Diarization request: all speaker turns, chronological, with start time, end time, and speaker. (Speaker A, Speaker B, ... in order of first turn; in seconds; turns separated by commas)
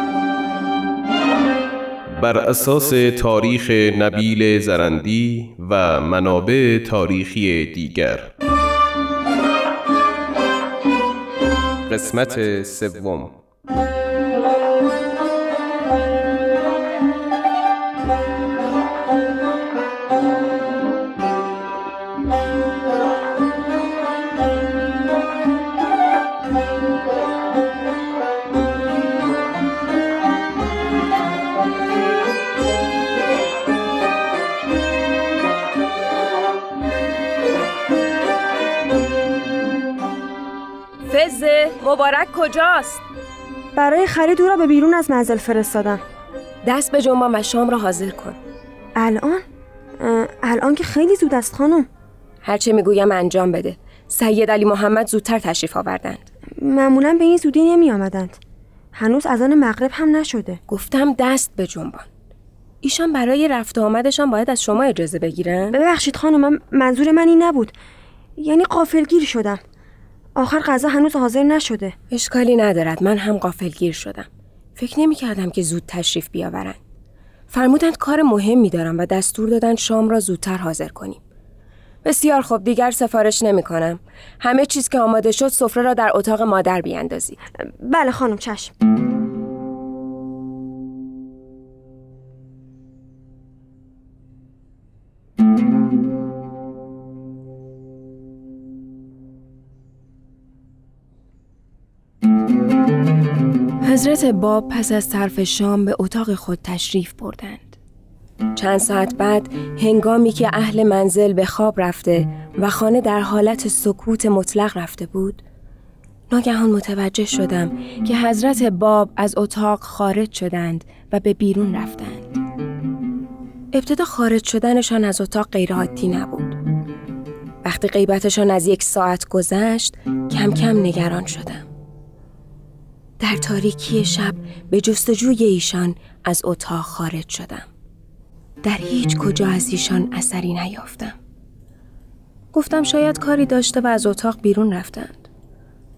Speaker A: 2.2-8.1, Speaker A: 11.9-13.2, Speaker B: 41.1-43.0, Speaker C: 43.8-46.0, Speaker B: 46.6-48.4, Speaker C: 49.0-49.4, Speaker C: 50.0-51.9, Speaker B: 52.4-56.3, Speaker C: 56.6-58.4, Speaker C: 59.0-60.6, Speaker B: 60.7-62.1, Speaker B: 62.8-65.8, Speaker C: 65.7-67.7, Speaker C: 68.4-69.6, Speaker C: 70.3-71.9, Speaker B: 72.1-76.8, Speaker B: 77.5-81.2, Speaker B: 82.0-87.4, Speaker C: 87.7-88.7, Speaker B: 103.8-107.8, Speaker B: 108.5-115.4, Speaker B: 116.3-122.3, Speaker B: 123.7-126.6, Speaker B: 127.6-131.7, Speaker B: 133.2-137.7, Speaker B: 138.6-141.2, Speaker B: 142.5-145.3